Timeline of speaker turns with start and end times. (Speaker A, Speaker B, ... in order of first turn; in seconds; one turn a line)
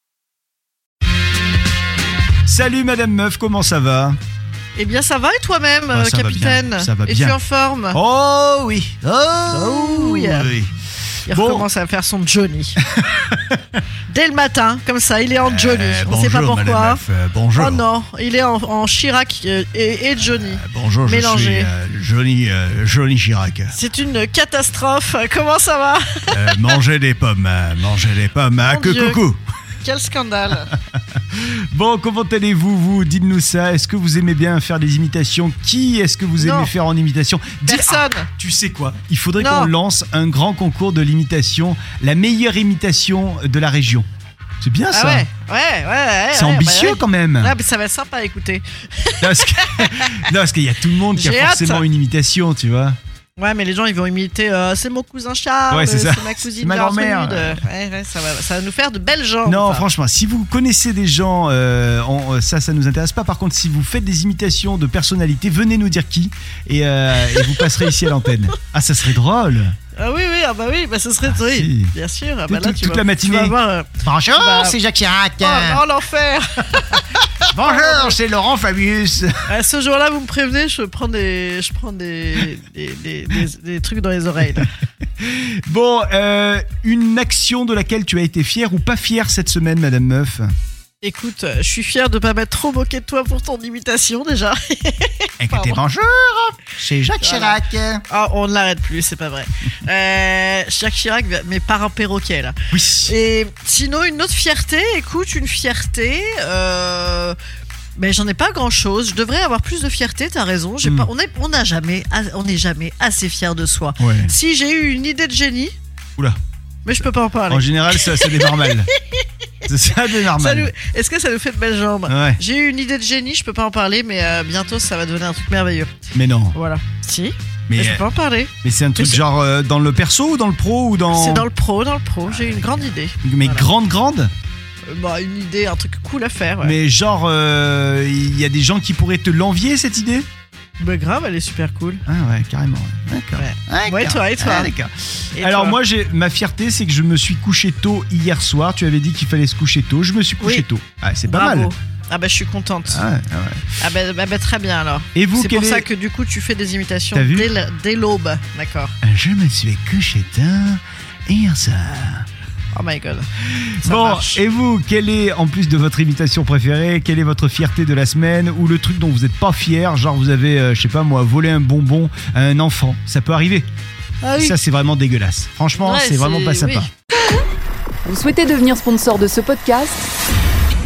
Speaker A: 2.5-4.2
Speaker B: 4.8-8.0
Speaker A: 5.9-7.4
Speaker A: 7.9-10.7
Speaker B: 9.5-10.5
Speaker A: 11.3-11.7
Speaker B: 11.3-12.8
Speaker A: 12.9-13.6
Speaker B: 14.1-17.0
Speaker A: 15.4-17.8
Speaker B: 17.6-21.7
Speaker A: 20.4-23.8
Speaker B: 23.7-26.8
Speaker A: 26.3-29.4
Speaker B: 28.6-29.2
Speaker B: 29.8-30.7
Speaker A: 30.9-44.1
Speaker B: 36.4-36.7
Speaker B: 37.6-38.3
Speaker B: 39.4-39.7
Speaker A: 44.6-45.3
Speaker B: 44.9-50.3
Speaker A: 46.3-47.6
Speaker A: 49.2-53.0
Speaker B: 51.1-51.9
Speaker B: 53.4-59.9
Speaker A: 55.7-57.6
Speaker A: 59.5-69.8
Speaker B: 67.3-67.9
Speaker B: 70.0-74.8
Speaker A: 71.3-71.9
Speaker A: 72.5-75.8
Speaker B: 75.4-78.2
Speaker A: 77.1-79.4
Speaker B: 79.5-84.7
Speaker A: 85.2-90.5
Speaker B: 91.0-95.8
Speaker A: 95.4-98.0
Speaker B: 97.2-107.4
Speaker A: 102.7-103.2
Speaker B: 108.0-115.8
Speaker A: 110.8-111.1
Speaker A: 114.0-114.3
Speaker B: 116.8-125.9
Speaker A: 117.5-118.9
Speaker A: 119.7-120.7
Speaker A: 122.1-122.4
Speaker A: 126.1-126.6
Speaker B: 126.5-129.2
Speaker A: 127.7-128.1
Speaker A: 128.6-131.5
Speaker B: 131.1-133.7
Speaker A: 132.3-134.3
Speaker B: 134.9-136.8
Speaker A: 136.6-140.3
Speaker B: 140.8-142.0
Speaker A: 142.1-151.7
Speaker B: 143.4-144.7
Speaker B: 145.3-145.8
Speaker B: 150.4-150.7
Speaker B: 151.3-153.1
Speaker A: 152.9-153.7
Speaker B: 153.8-158.9
Speaker A: 155.2-155.9
Speaker A: 157.1-157.5
Speaker A: 159.0-162.3
Speaker B: 162.7-163.3
Speaker A: 163.6-173.7
Speaker B: 163.8-164.4
Speaker B: 174.2-174.6
Speaker A: 174.3-176.9
Speaker B: 175.8-176.9
Speaker C: 178.1-180.1